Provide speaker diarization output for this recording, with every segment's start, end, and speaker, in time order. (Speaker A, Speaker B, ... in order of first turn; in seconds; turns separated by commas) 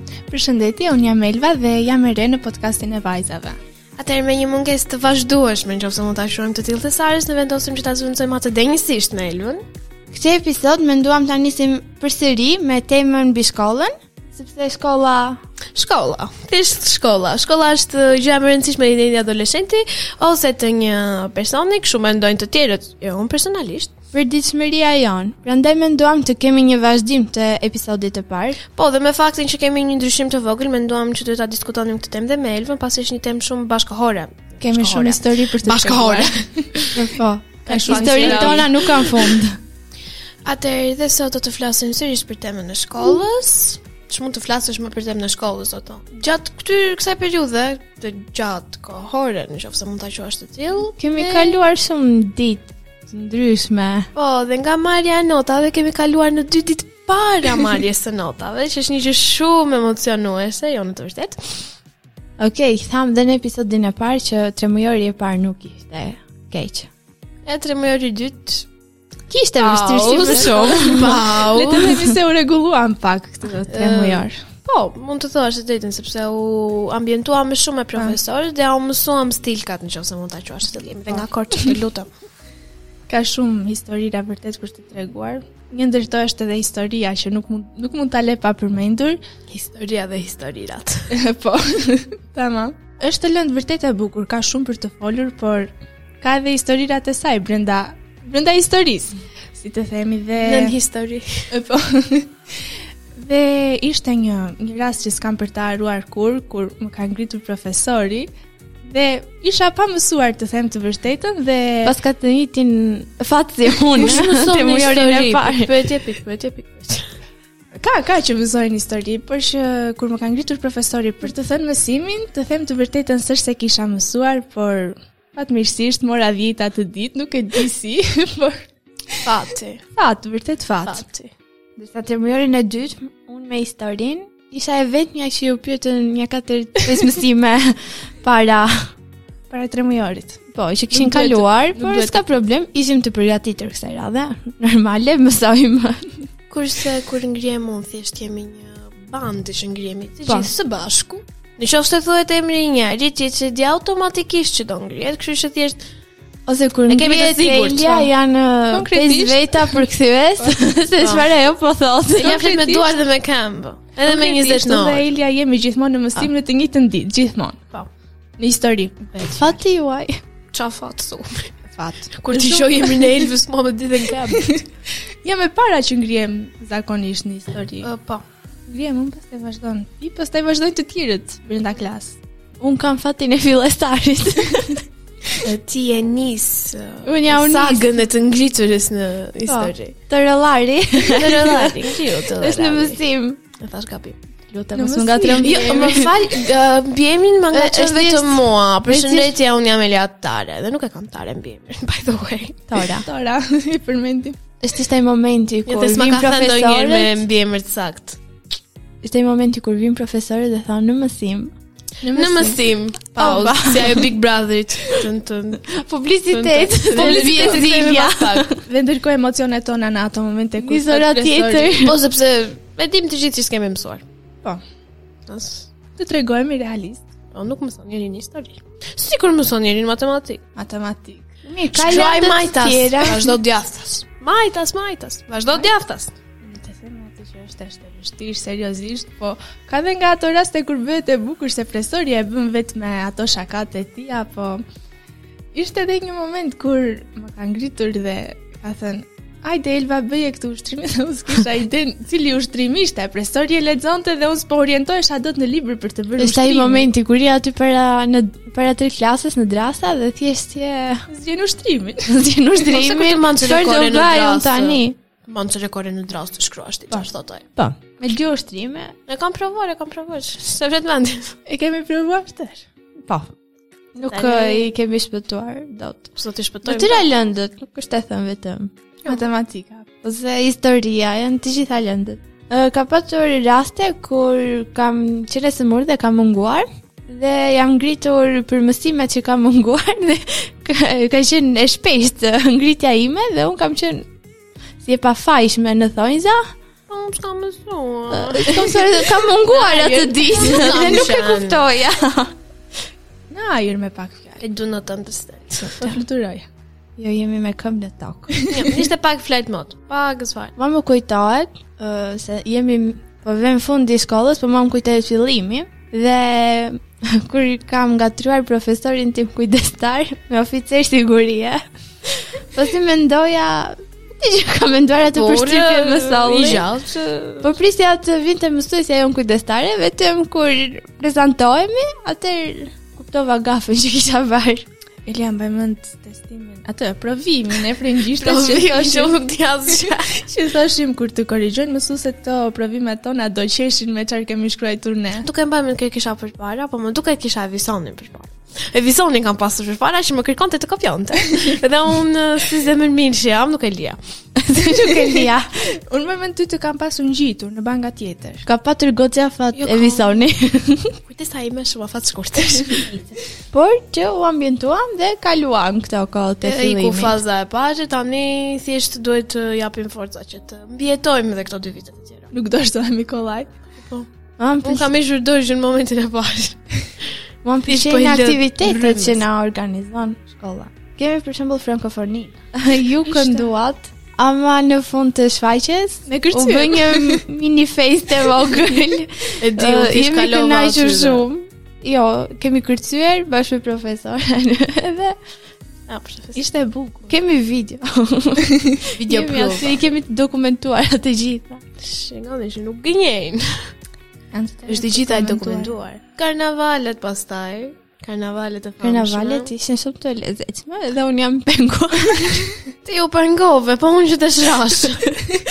Speaker A: 0.3-3.6, Speaker B: 4.0-9.6, Speaker C: 10.1-15.4, Speaker B: 15.7-23.9, Speaker C: 24.1-28.6, Speaker B: 28.7-37.0, Speaker A: 34.6-36.6, Speaker C: 36.9-39.6, Speaker B: 37.6-39.0, Speaker A: 37.7-39.1, Speaker B: 40.4-51.5, Speaker C: 51.0-54.1, Speaker B: 54.1-61.4, Speaker C: 62.4-66.9, Speaker B: 67.4-68.7, Speaker C: 69.3-71.2, Speaker B: 69.5-72.0, Speaker A: 69.9-74.4, Speaker B: 73.6-82.1, Speaker A: 83.1-89.2, Speaker B: 89.5-91.1, Speaker A: 91.1-95.7, Speaker A: 96.2-100.8, Speaker B: 100.4-101.5, Speaker A: 101.5-102.3, Speaker A: 103.2-108.3, Speaker A: 108.8-112.0, Speaker C: 111.8-115.7, Speaker B: 114.0-117.1, Speaker A: 117.7-128.6, Speaker B: 129.2-129.8, Speaker A: 129.9-131.0, Speaker B: 130.8-131.3, Speaker C: 131.8-138.9, Speaker A: 139.5-140.4, Speaker C: 140.5-145.9, Speaker A: 140.9-142.3, Speaker B: 146.5-155.8, Speaker C: 156.5-162.9, Speaker B: 156.9-158.1, Speaker A: 158.7-159.8, Speaker B: 161.0-161.3, Speaker B: 162.2-165.1, Speaker A: 164.1-167.6, Speaker A: 168.4-169.6, Speaker C: 169.3-170.1, Speaker B: 170.5-171.5, Speaker A: 171.8-173.3, Speaker B: 172.1-174.6, Speaker A: 175.2-177.9, Speaker B: 177.8-178.2, Speaker A: 178.7-182.2, Speaker C: 182.6-184.8, Speaker B: 185.4-189.9, Speaker C: 187.0-187.9, Speaker C: 189.5-191.8, Speaker B: 191.0-193.0, Speaker C: 192.4-193.4, Speaker B: 193.6-194.2, Speaker A: 194.6-196.1, Speaker C: 194.7-196.2, Speaker B: 195.2-202.6, Speaker C: 197.5-199.3, Speaker C: 202.7-203.1, Speaker A: 202.8-204.4, Speaker C: 204.6-207.2, Speaker B: 205.7-208.2, Speaker C: 209.0-211.5, Speaker A: 212.0-212.6, Speaker B: 212.1-215.7, Speaker C: 213.2-214.0, Speaker C: 215.7-218.6, Speaker B: 216.3-218.5, Speaker A: 216.9-217.8, Speaker A: 218.6-221.8, Speaker C: 220.6-222.0, Speaker B: 221.8-224.0, Speaker B: 225.3-225.7, Speaker A: 226.0-227.0, Speaker B: 227.3-230.4, Speaker A: 230.6-231.3, Speaker C: 231.4-233.3, Speaker B: 231.7-236.1, Speaker A: 236.4-244.6, Speaker A: 245.5-256.9, Speaker C: 256.2-261.1, Speaker A: 261.1-262.2, Speaker C: 262.1-264.9, Speaker B: 262.7-267.4, Speaker C: 267.6-268.9, Speaker B: 269.1-271.3, Speaker A: 271.4-272.6, Speaker C: 273.1-273.3, Speaker C: 273.9-276.1, Speaker B: 274.1-274.7, Speaker B: 276.1-277.1, Speaker C: 276.6-278.7, Speaker A: 279.1-279.9, Speaker C: 280.0-294.1, Speaker C: 294.8-296.4, Speaker B: 296.9-298.9, Speaker C: 298.1-302.3, Speaker B: 299.5-301.6, Speaker A: 299.8-300.0, Speaker A: 303.3-304.4, Speaker B: 304.4-305.9, Speaker A: 305.6-306.4, Speaker C: 307.0-308.3, Speaker B: 308.5-310.5, Speaker C: 310.6-326.6, Speaker B: 325.1-327.5, Speaker C: 327.4-334.6, Speaker A: 335.1-339.1, Speaker B: 338.1-340.2, Speaker A: 339.7-345.2, Speaker B: 345.2-354.0, Speaker C: 354.4-355.5, Speaker A: 354.6-355.3, Speaker A: 355.9-358.4, Speaker C: 358.4-360.9, Speaker B: 359.5-360.2, Speaker B: 361.1-362.9, Speaker C: 362.9-367.2, Speaker B: 366.4-372.3, Speaker A: 372.3-373.5, Speaker C: 374.4-374.9, Speaker B: 374.6-376.6, Speaker C: 377.4-395.1, Speaker B: 377.6-379.2, Speaker A: 383.0-383.5, Speaker A: 386.1-387.2, Speaker B: 389.4-391.2, Speaker B: 395.9-396.4, Speaker A: 396.3-397.1, Speaker C: 397.1-401.6, Speaker B: 399.0-399.7, Speaker A: 399.1-399.7, Speaker B: 401.8-403.5, Speaker A: 404.3-405.7, Speaker B: 404.7-409.5, Speaker C: 408.8-412.5, Speaker B: 412.8-415.0